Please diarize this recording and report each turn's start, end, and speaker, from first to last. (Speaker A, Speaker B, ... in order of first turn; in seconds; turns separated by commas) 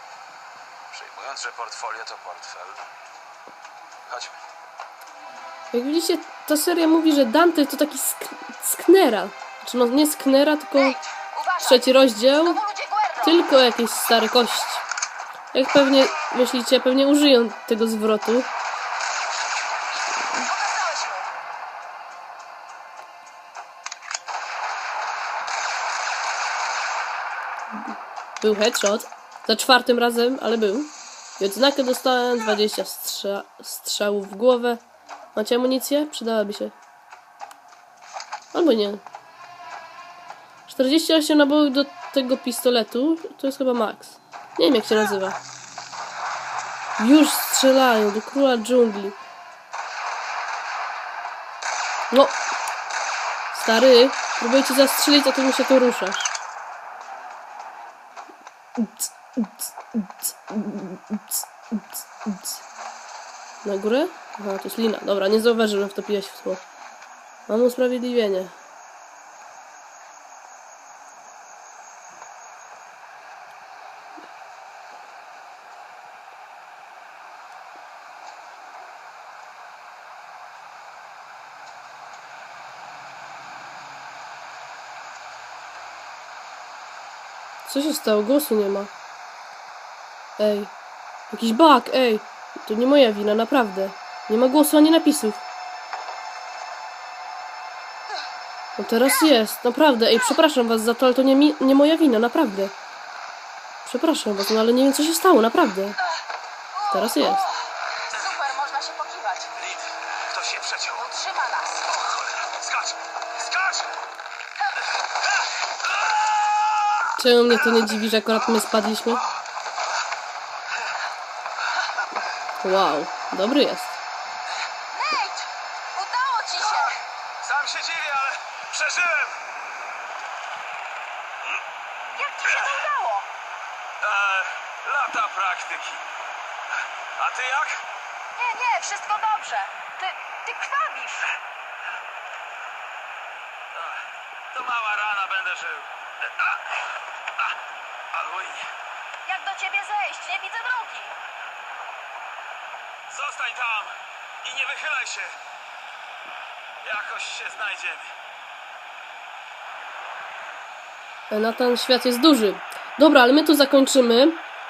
Speaker A: 0.9-2.8, Speaker A: 4.1-4.4, Speaker B: 5.7-11.0, Speaker C: 10.8-13.5, Speaker B: 11.6-12.6, Speaker B: 13.2-14.8, Speaker B: 15.5-18.5, Speaker C: 20.4-21.3, Speaker B: 27.8-34.8, Speaker B: 35.4-36.7, Speaker B: 38.5-39.0, Speaker B: 40.7-45.4, Speaker B: 47.0-49.2, Speaker B: 52.1-52.4, Speaker B: 53.5-56.4, Speaker B: 58.8-62.6, Speaker B: 63.6-66.6, Speaker B: 67.5-68.5, Speaker B: 87.7-88.9, Speaker B: 90.4-90.7, Speaker B: 91.3-95.4, Speaker B: 98.8-102.7, Speaker B: 103.8-106.0, Speaker C: 106.8-109.5, Speaker B: 106.9-107.4, Speaker A: 109.6-111.1, Speaker C: 110.9-111.9, Speaker A: 111.9-114.0, Speaker C: 114.6-114.9, Speaker B: 117.2-119.3, Speaker B: 122.6-124.0, Speaker C: 124.9-127.0, Speaker A: 126.6-129.4, Speaker C: 132.2-133.3, Speaker A: 132.4-132.8, Speaker A: 134.0-136.1, Speaker A: 137.2-137.8, Speaker C: 138.4-141.4, Speaker A: 143.8-144.0, Speaker A: 144.5-146.8, Speaker A: 148.1-148.7, Speaker C: 149.3-151.1, Speaker A: 153.1-155.4, Speaker A: 156.8-158.1, Speaker B: 161.3-164.4